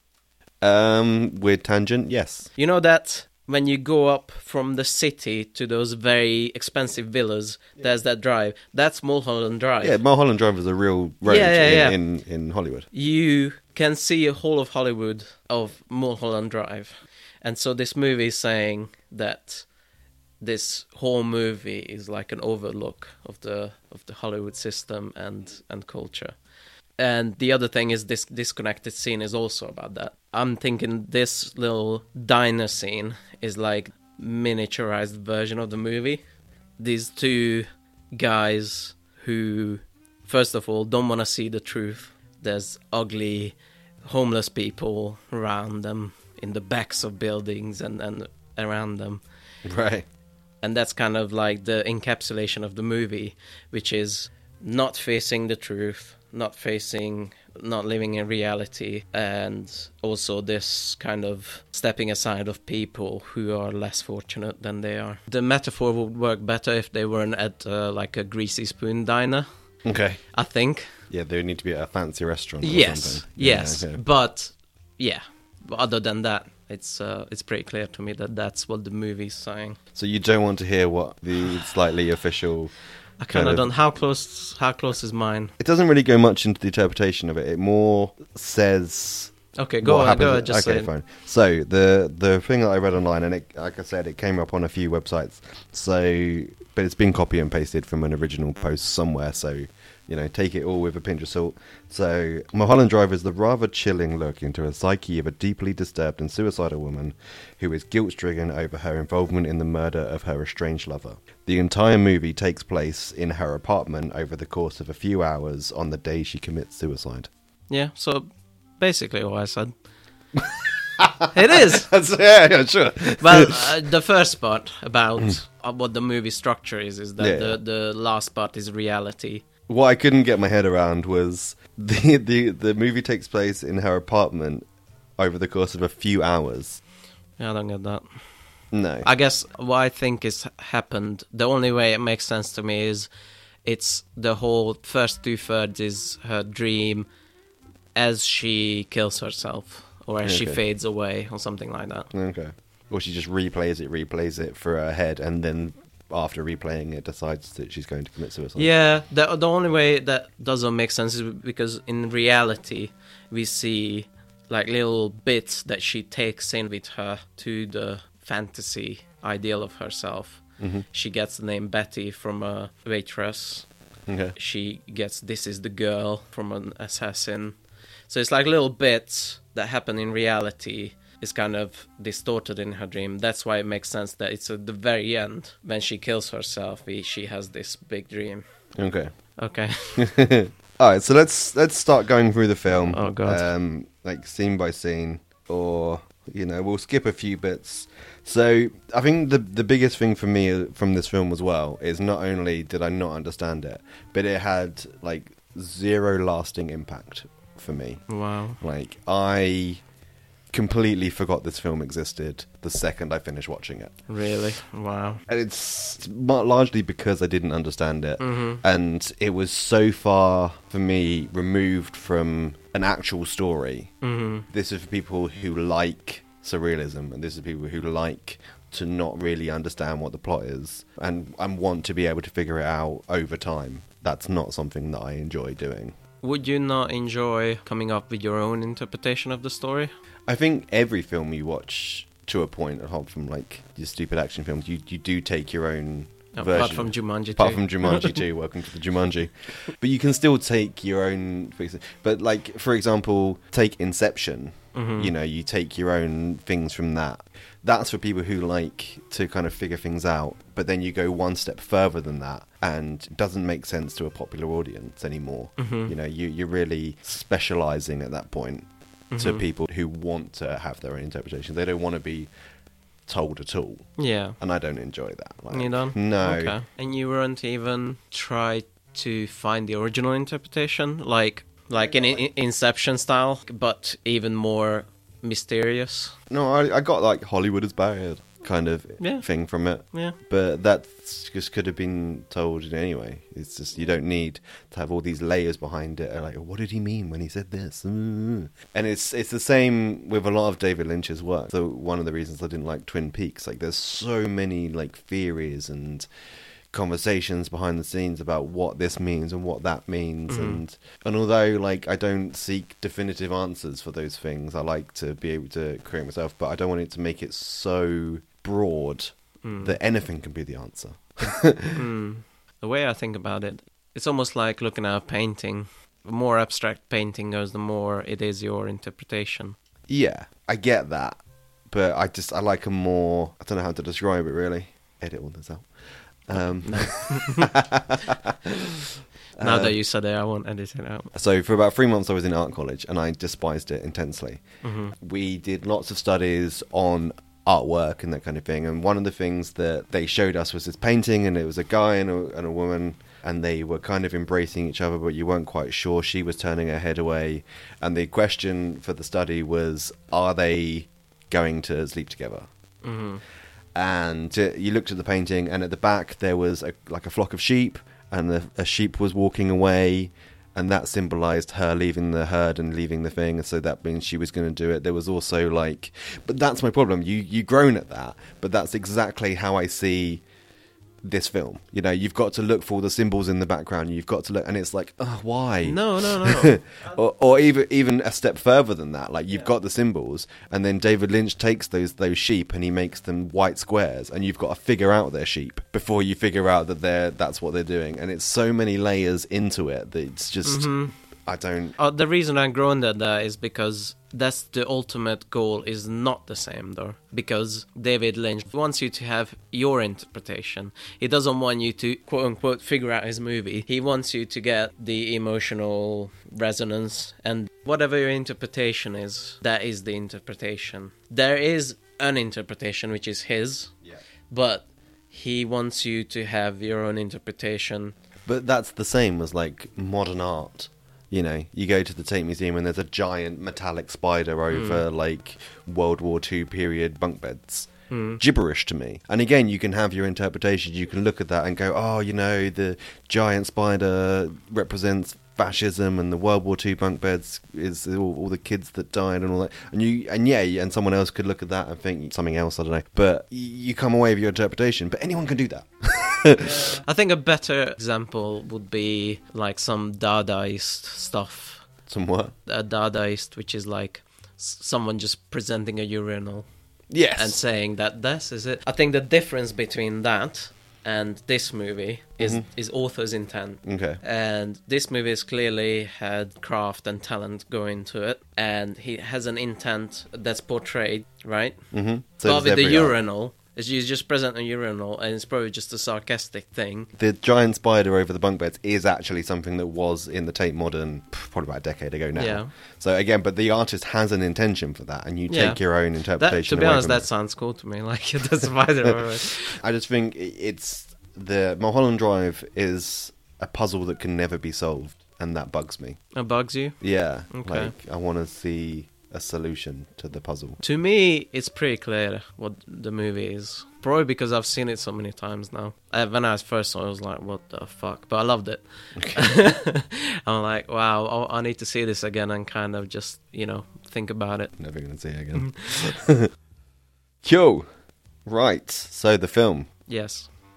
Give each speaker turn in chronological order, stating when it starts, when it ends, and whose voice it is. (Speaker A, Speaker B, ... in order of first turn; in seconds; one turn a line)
Speaker A: 0.6-2.5
Speaker B: 2.6-10.0
Speaker A: 9.8-12.9
Speaker B: 11.3-12.0
Speaker B: 12.9-19.7
Speaker B: 20.4-26.4
Speaker B: 27.0-36.2
Speaker B: 36.8-49.2
Speaker A: 49.6-50.0
Speaker B: 50.6-69.5
Speaker A: 69.8-70.2
Speaker B: 70.3-70.9
Speaker A: 71.1-74.0
Speaker B: 72.6-79.8
Speaker A: 80.0-82.7
Speaker B: 83.2-85.5
Speaker A: 83.3-83.7
Speaker A: 85.6-117.3
Speaker B: 89.6-90.9
Speaker B: 117.7-119.7
Speaker A: 120.4-123.8
Speaker B: 121.3-121.9
Speaker B: 123.2-129.4
Speaker A: 127.2-127.6
Speaker A: 129.7-134.7
Speaker A: 135.2-136.8
Speaker B: 137.4-138.0
Speaker A: 138.7-139.1
Speaker B: 139.0-143.1
Speaker B: 143.7-147.1
Speaker B: 147.9-152.1
Speaker A: 150.2-150.6
Speaker A: 152.1-158.7
Speaker B: 158.6-173.7
Speaker A: 170.6-170.8
Speaker A: 174.1-174.4
Speaker B: 174.4-177.6
Speaker B: 178.1-188.4
Speaker A: 188.8-189.1
Speaker B: 189.4-190.1
Speaker A: 190.0-208.1
Speaker B: 192.8-193.5
Speaker B: 208.1-208.6
Speaker A: 208.6-209.8
Speaker A: 210.5-213.9
Speaker B: 214.1-215.2
Speaker A: 215.3-223.9
Speaker B: 218.2-218.6
Speaker B: 224.0-224.5
Speaker A: 224.5-235.9
Speaker B: 236.2-239.9
Speaker A: 240.3-268.7
Speaker B: 246.3-248.2
Speaker B: 254.7-255.1
Speaker B: 265.6-265.9
Speaker B: 269.1-269.4
Speaker A: 269.2-272.3
Speaker A: 273.1-273.9
Speaker B: 274.0-274.4
Speaker A: 274.4-276.6
Speaker B: 275.5-286.1
Speaker A: 286.3-306.1
Speaker B: 289.0-289.3
Speaker A: 306.7-321.8
Speaker B: 310.3-310.6
Speaker B: 319.4-319.8
Speaker B: 321.8-329.6
Speaker A: 329.9-335.7
Speaker A: 336.3-339.8
Speaker B: 336.6-337.5
Speaker B: 339.4-341.1
Speaker A: 341.1-344.4
Speaker B: 344.6-344.9
Speaker A: 344.9-362.5
Speaker B: 362.8-363.2
Speaker A: 363.8-380.2
Speaker A: 381.0-401.8
Speaker B: 385.6-387.0
Speaker B: 400.4-400.9
Speaker B: 401.8-423.7
Speaker B: 424.3-427.9
Speaker A: 428.3-456.7
Speaker B: 434.5-434.8
Speaker B: 437.9-438.2
Speaker B: 456.5-461.7
Speaker A: 461.9-462.3
Speaker B: 462.5-466.5
Speaker A: 466.9-467.4
Speaker B: 467.1-481.6
Speaker A: 472.2-472.4
Speaker A: 473.6-474.0
Speaker A: 481.7-483.0
Speaker B: 482.2-486.9
Speaker A: 487.0-497.1
Speaker B: 492.2-492.5
Speaker B: 495.3-495.6
Speaker B: 496.2-499.6
Speaker A: 498.9-506.0
Speaker B: 506.1-506.8
Speaker A: 506.8-510.6
Speaker B: 507.3-507.7
Speaker B: 510.6-524.5
Speaker A: 519.0-519.3
Speaker A: 524.6-526.3
Speaker B: 525.4-525.8
Speaker A: 527.2-527.7
Speaker A: 528.2-529.7
Speaker B: 529.9-530.3